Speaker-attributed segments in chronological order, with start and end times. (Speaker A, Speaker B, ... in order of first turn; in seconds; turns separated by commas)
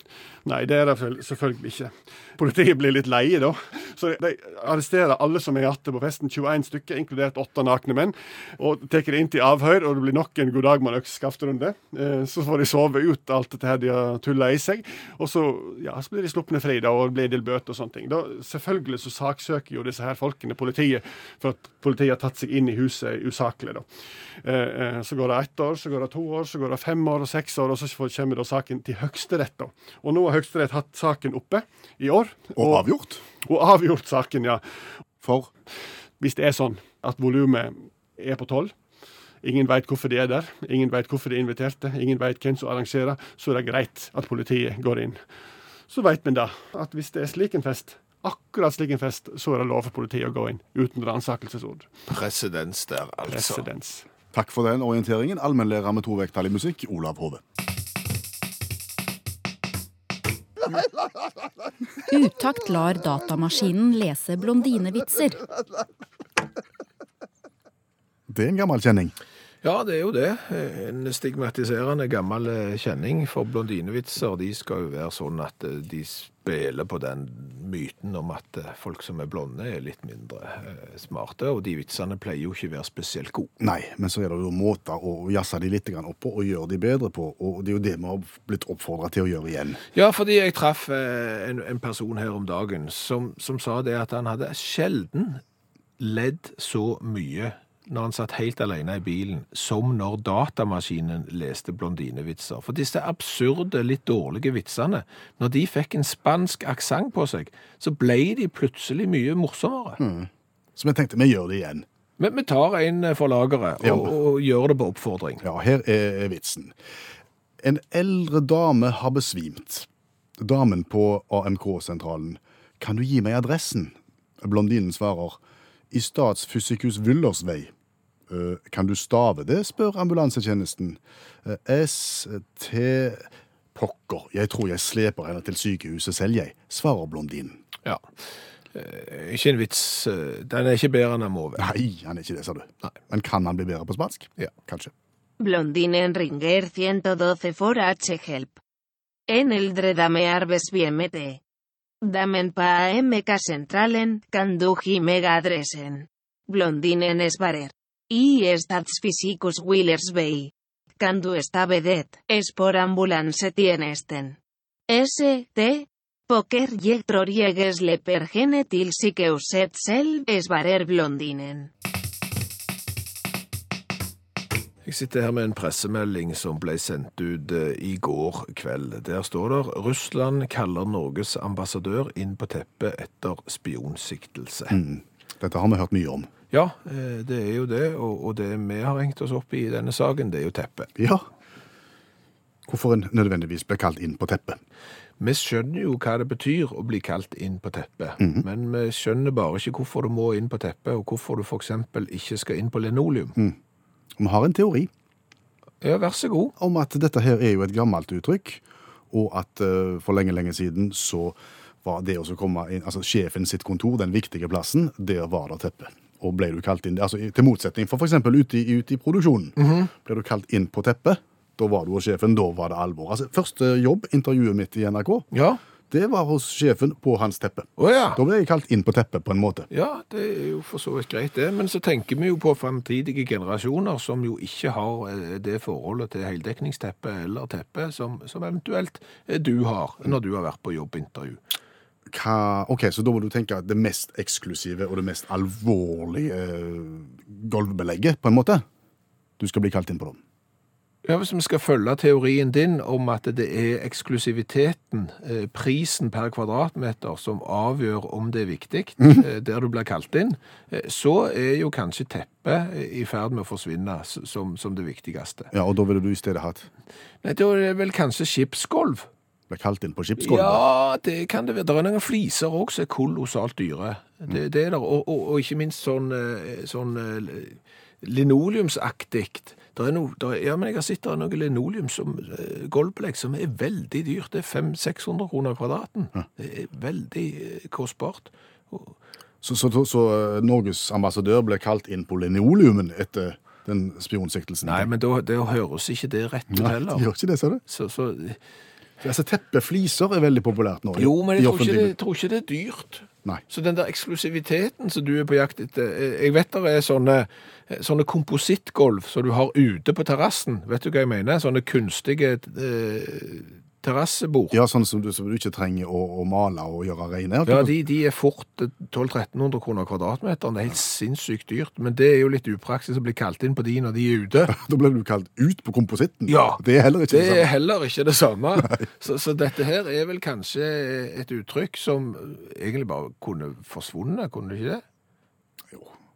Speaker A: 0.4-23.8, Speaker A: 24.4-32.9, Speaker B: 32.6-33.2, Speaker A: 33.4-34.6, Speaker B: 35.2-35.5, Speaker A: 36.2-38.7, Speaker A: 39.4-45.2, Speaker A: 45.9-51.9, Speaker C: 52.1-53.6, Speaker A: 53.3-54.1, Speaker B: 54.3-57.4, Speaker D: 62.1-65.4, Speaker B: 68.3-69.1, Speaker C: 69.6-83.5, Speaker B: 83.6-89.8, Speaker C: 89.9-95.4, Speaker C: 96.0-110.0, Speaker B: 110.0-111.8, Speaker C: 112.2-115.4, Speaker B: 113.8-114.1, Speaker B: 115.4-116.8, Speaker B: 117.6-125.4, Speaker B: 125.9-127.7, Speaker B: 128.3-137.6, Speaker C: 138.7-141.7, Speaker B: 141.6-144.9, Speaker E: 145.4-148.6, Speaker E: 149.3-151.4, Speaker E: 152.0-164.4, Speaker E: 164.9-171.7, Speaker C: 174.8-184.8, Speaker B: 184.7-186.3, Speaker C: 186.5-190.9, Speaker B: 190.9-191.2, Speaker B: 192.7-194.6, Speaker C: 195.2-203.4, Speaker B: 198.2-198.4, Speaker B: 204.2-204.9, Speaker C: 205.8-206.5, Speaker B: 206.6-225.3, Speaker C: 219.6-219.9, Speaker C: 225.3-225.6, Speaker B: 225.9-229.7, Speaker C: 227.8-228.2, Speaker C: 229.7-241.4, Speaker B: 242.1-248.6, Speaker B: 249.4-250.2, Speaker C: 251.0-265.5, Speaker B: 265.5-266.7, Speaker C: 267.2-269.1, Speaker B: 269.5-270.6, Speaker C: 270.2-288.9, Speaker B: 289.4-294.9, Speaker C: 294.6-297.1, Speaker B: 296.5-297.6, Speaker C: 297.7-298.4, Speaker B: 299.0-301.9, Speaker C: 300.9-314.6, Speaker B: 314.5-317.7, Speaker C: 317.4-324.6, Speaker B: 324.5-327.5, Speaker C: 326.3-334.8, Speaker B: 328.6-328.8